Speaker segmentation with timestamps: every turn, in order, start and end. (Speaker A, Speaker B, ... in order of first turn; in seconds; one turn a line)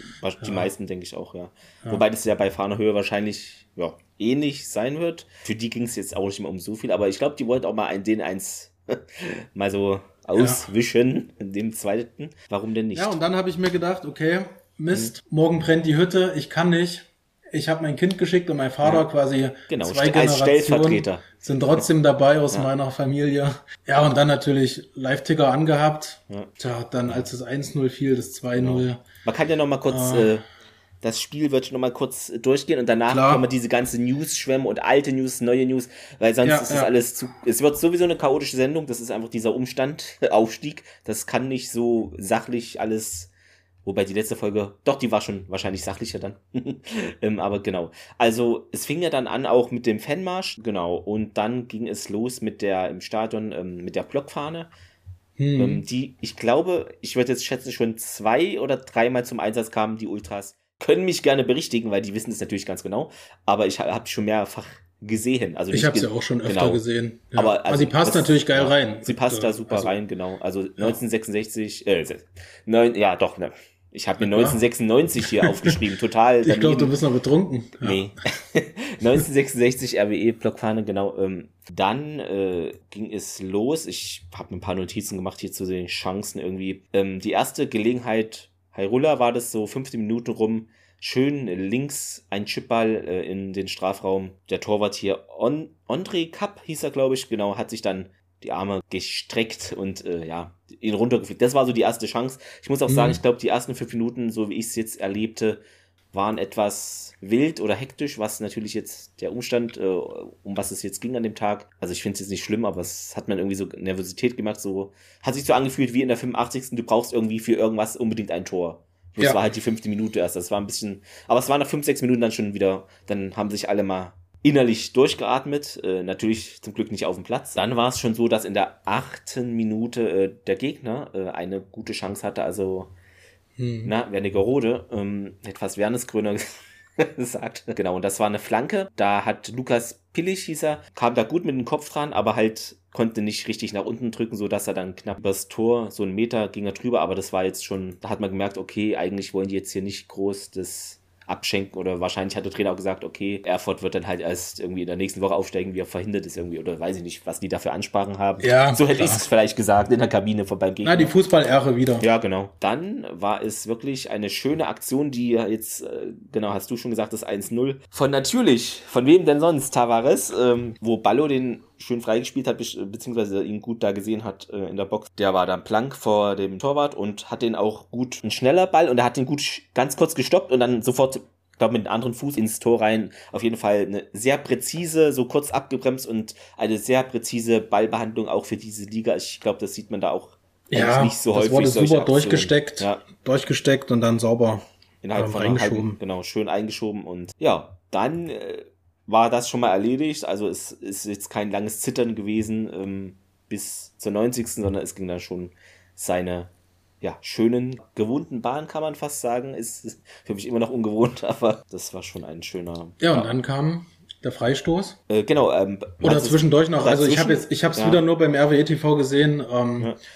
Speaker A: 0.2-13.2
Speaker B: 0.4-0.7
Speaker B: 10.4-10.7
Speaker B: 12.9-29.1
Speaker A: 18.8-19.1
Speaker A: 19.7-21.3
Speaker A: 28.6-30.4
Speaker B: 29.9-30.4
Speaker A: 31.0-43.3
Speaker B: 33.1-33.5
Speaker B: 36.4-36.9
Speaker A: 43.9-54.7
Speaker B: 55.4-55.8
Speaker A: 55.6-66.8
Speaker B: 65.7-70.0
Speaker A: 67.3-76.9
Speaker B: 74.2-74.6
Speaker B: 75.4-75.7
Speaker B: 76.4-78.0
Speaker A: 77.8-105.6
Speaker B: 102.9-103.2
Speaker A: 106.1-132.9
Speaker B: 133.6-133.9
Speaker A: 133.8-161.1
Speaker B: 158.4-159.2
Speaker B: 160.8-162.1
Speaker A: 162.0-193.1
Speaker B: 190.7-196.0
Speaker A: 195.0-213.3
Speaker B: 213.0-215.0
Speaker A: 215.1-218.0
Speaker B: 216.0-219.9